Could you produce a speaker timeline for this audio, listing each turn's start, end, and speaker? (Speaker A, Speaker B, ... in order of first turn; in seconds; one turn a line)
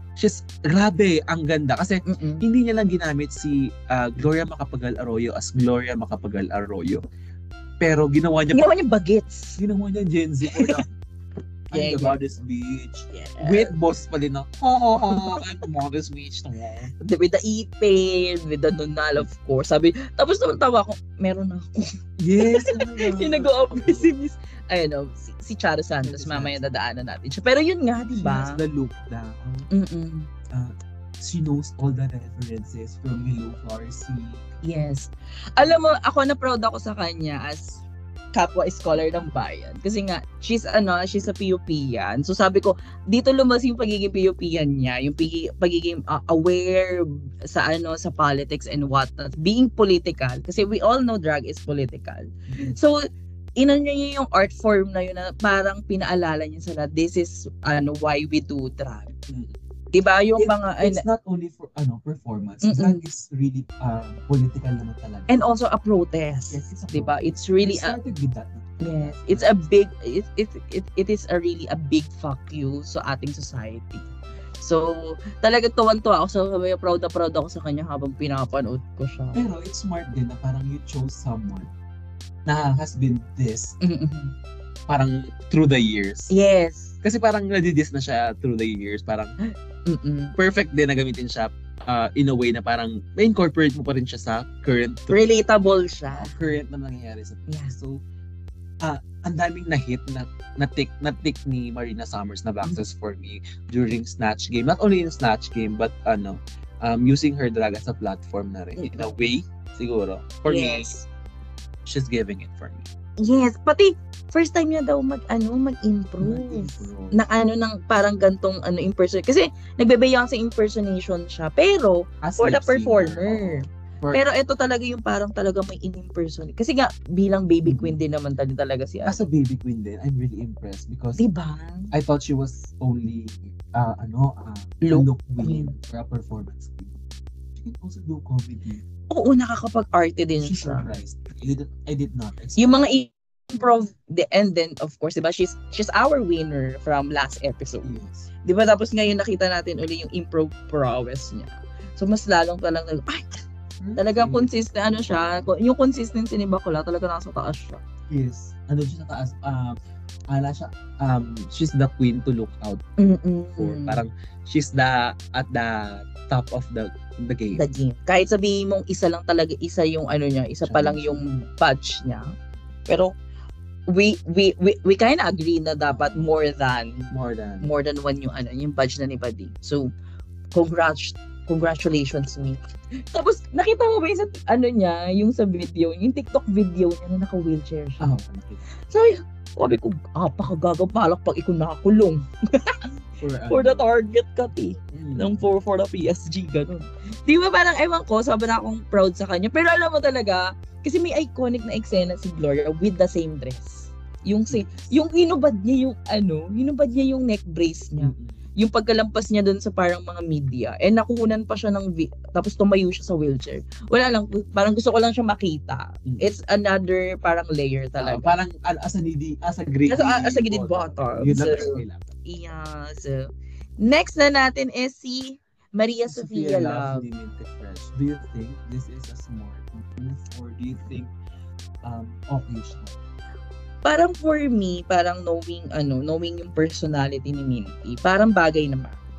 Speaker A: 0.2-7.0
Speaker B: 2.1-2.4
Speaker A: 7.8-8.7
Speaker B: 8.5-9.6
Speaker A: 9.6-10.9
Speaker B: 10.5-10.8
Speaker A: 11.7-16.9
Speaker B: 11.7-12.2
Speaker B: 13.1-13.7
Speaker B: 15.1-15.4
Speaker B: 17.0-28.6
Speaker A: 22.2-24.1
Speaker A: 26.0-26.6
Speaker A: 28.1-29.7
Speaker B: 29.7-30.3
Speaker A: 30.5-34.5
Speaker B: 34.6-37.8
Speaker A: 35.6-36.0
Speaker B: 38.3-53.0
Speaker A: 52.5-52.8
Speaker B: 53.6-59.1
Speaker A: 59.3-59.6
Speaker B: 59.9-61.0
Speaker A: 60.4-65.3
Speaker B: 62.6-63.0
Speaker B: 65.3-68.0
Speaker A: 66.5-69.6
Speaker B: 68.8-79.4
Speaker A: 79.3-81.7
Speaker A: 82.5-83.8
Speaker B: 83.8-84.3
Speaker A: 84.9-86.3
Speaker B: 86.3-87.0
Speaker A: 87.0-89.3
Speaker B: 89.5-90.3
Speaker A: 90.4-95.2
Speaker B: 95.1-96.6
Speaker A: 96.1-98.0
Speaker B: 97.5-97.8
Speaker A: 98.8-110.9
Speaker B: 108.8-109.1
Speaker B: 110.5-111.1
Speaker A: 111.8-112.9
Speaker B: 113.2-129.2
Speaker A: 116.2-117.2
Speaker A: 122.2-124.2
Speaker A: 127.6-128.0
Speaker A: 129.0-131.2
Speaker B: 131.2-131.9
Speaker A: 131.9-136.9
Speaker B: 134.8-135.8
Speaker A: 137.6-138.8
Speaker B: 139.1-140.9
Speaker A: 140.4-142.9
Speaker B: 142.6-153.4
Speaker A: 147.8-148.3
Speaker A: 153.8-155.4
Speaker B: 154.0-157.8
Speaker A: 158.1-159.8
Speaker A: 160.3-162.8
Speaker B: 163.0-164.0
Speaker A: 163.6-167.6
Speaker B: 167.6-172.3
Speaker A: 170.6-171.3
Speaker B: 172.9-173.2
Speaker B: 173.9-177.1
Speaker A: 175.9-176.3
Speaker A: 177.1-177.7
Speaker B: 177.6-179.9
Speaker B: 180.5-182.6
Speaker B: 183.1-188.1
Speaker A: 188.0-188.7
Speaker B: 188.8-192.8
Speaker A: 193.2-193.9
Speaker B: 193.4-218.3
Speaker A: 194.9-195.4
Speaker A: 204.5-204.9
Speaker A: 208.0-208.4
Speaker A: 216.1-216.4
Speaker A: 218.0-222.1
Speaker B: 219.9-223.3
Speaker B: 223.8-227.1
Speaker A: 226.1-231.1
Speaker A: 231.8-233.0
Speaker B: 233.8-239.0